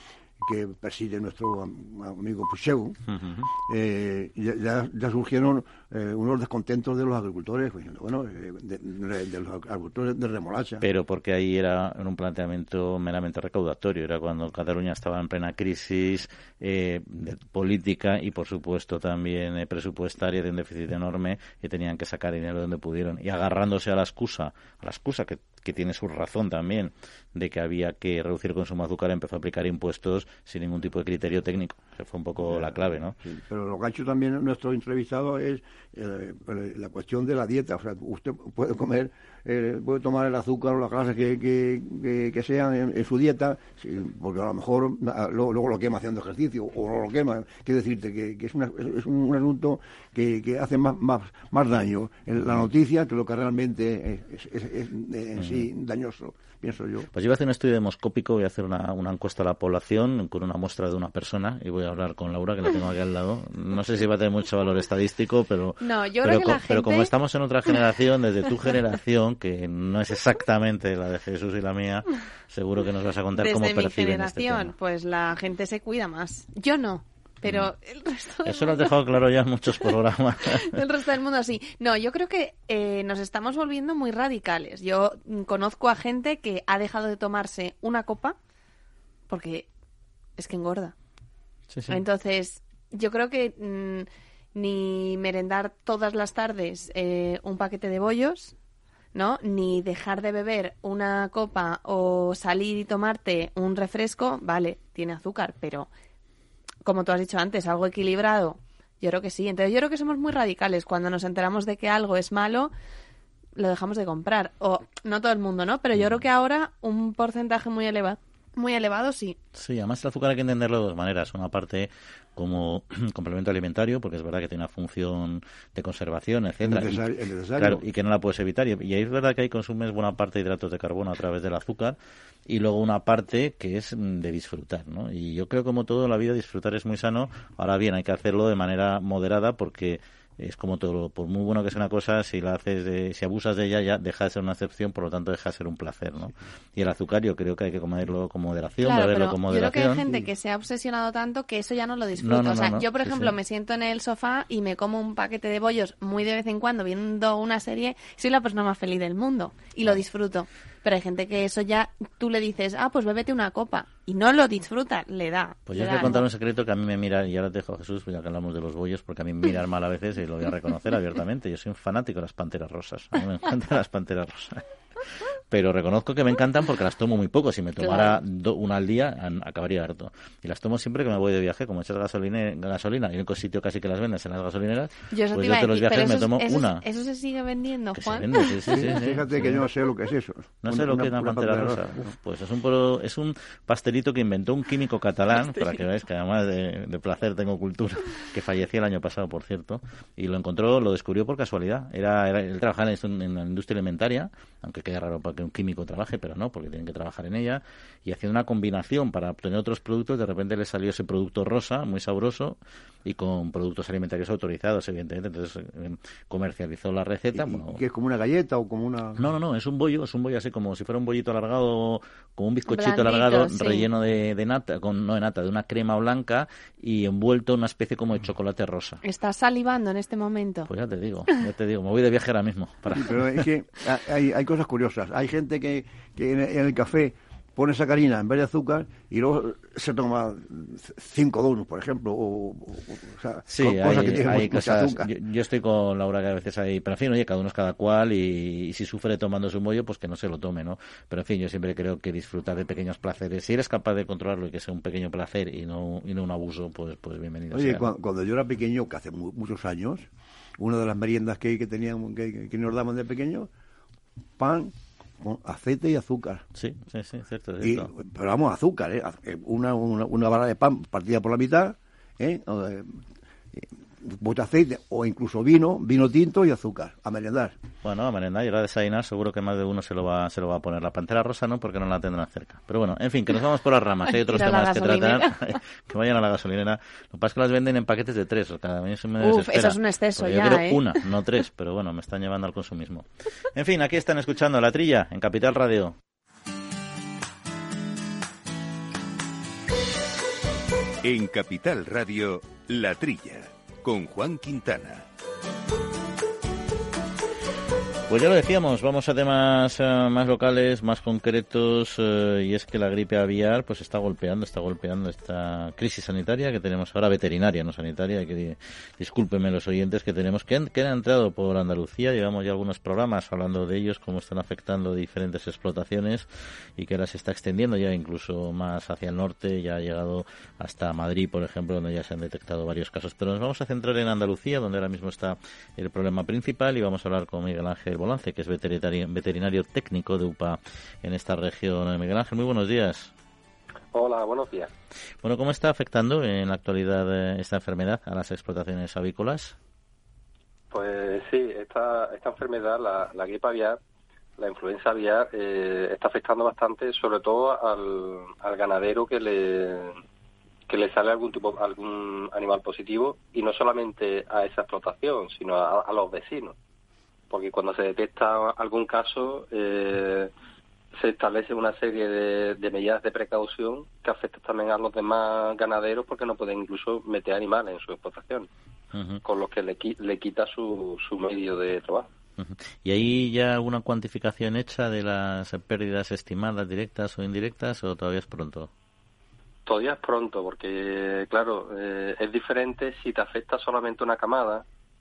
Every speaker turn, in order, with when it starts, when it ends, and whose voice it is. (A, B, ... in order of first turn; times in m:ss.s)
0:00.4-0:03.0 A
0:03.1-0:03.5 B
0:03.6-0:10.8 A
0:10.8-0:33.2 B
0:32.4-0:57.1 A
0:55.4-0:55.6 B
0:57.1-1:14.7 B
1:05.8-1:07.1 C
1:13.4-1:18.9 C
1:18.4-1:20.8 B
1:20.5-1:28.4 C
1:29.3-1:29.7 C
1:30.4-1:30.9 C
1:31.7-1:32.0 B
1:31.9-1:38.5 C
1:39.1-1:45.9 C
1:46.8-1:52.7 C
1:53.6-1:59.4 C
1:59.5-2:07.0 B
2:06.6-2:07.8 A
2:07.6-2:30.1 B
2:28.8-2:46.2 C
2:32.2-2:33.3 B
2:45.7-2:54.6 B
2:55.5-3:06.8 B
2:57.8-2:58.2 C
3:05.1-3:09.0 C
3:08.0-3:09.6 B
3:08.7-3:12.1 A
3:10.6-3:37.8 B
3:37.3-3:39.3 A
3:39.2-3:49.0 B
3:42.7-3:43.9 C
3:49.0-3:50.7 C
3:50.7-3:53.2 B
3:52.9-4:05.1 A
4:03.5-4:17.8 B
4:17.5-4:20.1 A
4:20.6-4:23.5 A
4:24.4-4:26.4 A
4:26.6-4:27.9 B
4:27.6-4:37.6 A
4:37.8-4:55.9 B
4:44.3-4:45.6 C
4:49.2-4:51.0 C
5:01.0-5:05.0 D
5:08.1-5:43.1 B
5:43.9-5:44.7 E
5:45.2-5:49.6 B
5:50.7-5:53.8 E
5:54.4-6:00.0 E
6:00.7-6:06.5 E
6:07.3-6:10.3 E
6:11.0-6:18.5 E
6:18.9-6:19.2 B
6:19.2-6:22.1 E
6:22.4-6:28.7 B
6:29.6-6:34.6 E